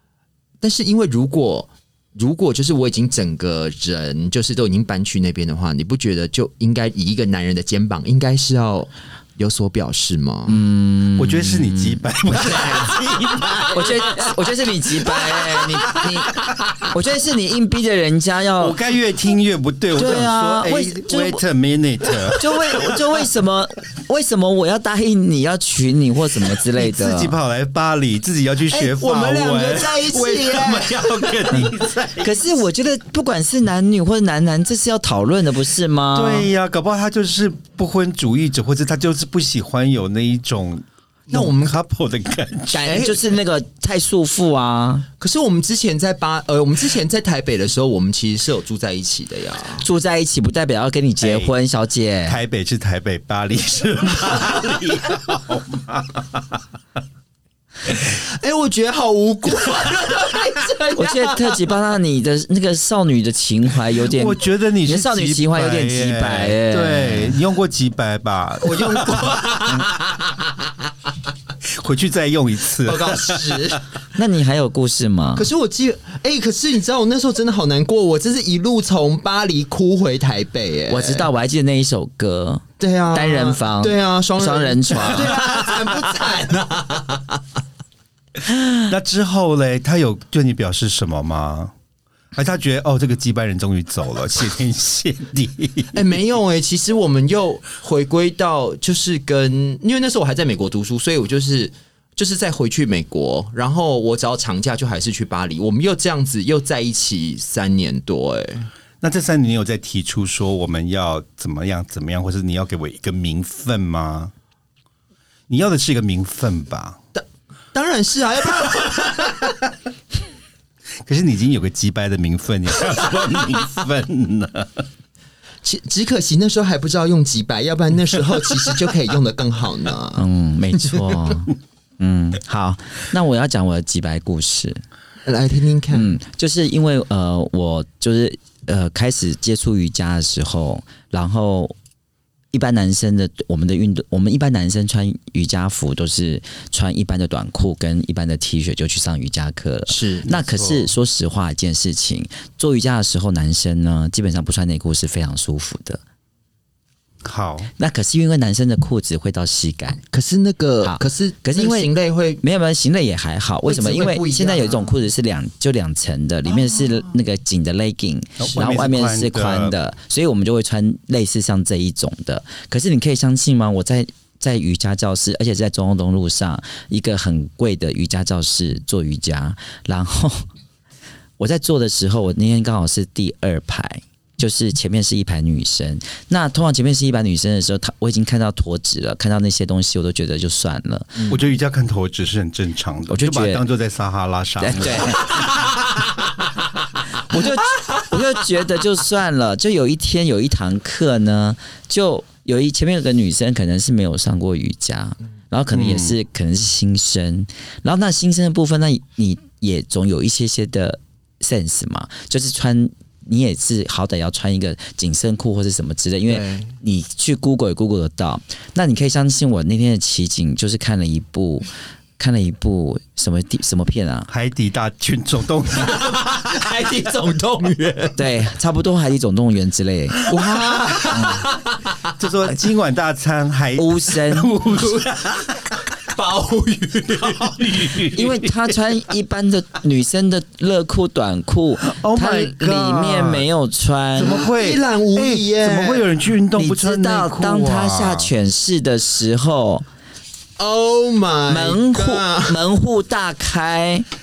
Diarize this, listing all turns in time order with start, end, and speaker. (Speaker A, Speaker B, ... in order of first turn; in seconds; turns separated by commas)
Speaker A: 0.6-10.6, Speaker B: 10.5-12.0, Speaker C: 11.2-14.0, Speaker A: 12.7-14.3, Speaker B: 13.7-18.8, Speaker C: 18.6-22.4, Speaker B: 19.9-21.4, Speaker B: 22.3-27.3, Speaker C: 26.7-32.5, Speaker A: 28.7-31.7, Speaker B: 32.2-36.5, Speaker C: 36.1-43.0, Speaker A: 41.3-41.8, Speaker B: 42.7-45.1, Speaker A: 42.8-43.2, Speaker A: 45.2-49.8, Speaker B: 49.8-52.4, Speaker C: 51.2-51.5, Speaker C: 52.2-56.6, Speaker A: 57.9-61.6, Speaker B: 60.9-67.4, Speaker C: 64.0-69.8, Speaker A: 68.6-70.5, Speaker C: 71.6-73.8, Speaker A: 72.8-73.8, Speaker B: 74.1-75.5, Speaker A: 75.3-81.3, Speaker B: 80.9-85.4, Speaker A: 82.8-87.4, Speaker C: 85.2-85.6, Speaker C: 88.9-91.7, Speaker C: 92.3-95.9, Speaker A: 95.9-108.7, Speaker C: 109.0-114.3, Speaker C: 115.5-117.0, Speaker A: 117.1-119.5, Speaker C: 121.0-124.8, Speaker A: 125.6-130.2, Speaker B: 130.2-134.8, Speaker A: 130.8-131.1, Speaker A: 135.2-136.1, Speaker B: 135.9-141.7, Speaker B: 142.5-156.0, Speaker A: 149.9-150.3, Speaker C: 150.3-150.9, Speaker C: 157.2-157.7, Speaker B: 157.8-160.0, Speaker A: 160.1-162.4, Speaker B: 160.8-161.9, Speaker B: 162.4-180.4, Speaker A: 163.7-164.9, Speaker C: 168.4-169.7, Speaker B: 181.4-191.3, Speaker C: 191.3-195.8, Speaker B: 193.1-193.6, Speaker B: 194.6-195.5, Speaker B: 197.1-224.3, Speaker C: 205.7-206.2, Speaker A: 216.3-216.7, Speaker C: 224.3-226.3, Speaker A: 225.8-228.2, Speaker B: 228.2-230.3, Speaker A: 230.3-232.0, Speaker B: 231.1-231.4, Speaker C: 232.2-235.6, Speaker B: 233.8-234.5, Speaker A: 234.7-235.4, Speaker A: 236.0-237.9, Speaker C: 237.1-238.8, Speaker B: 238.1-244.4, Speaker C: 241.8-243.4, Speaker C: 244.2-248.3, Speaker A: 244.2-246.1, Speaker B: 246.6-249.8, Speaker A: 250.6-252.6, Speaker B: 251.5-254.1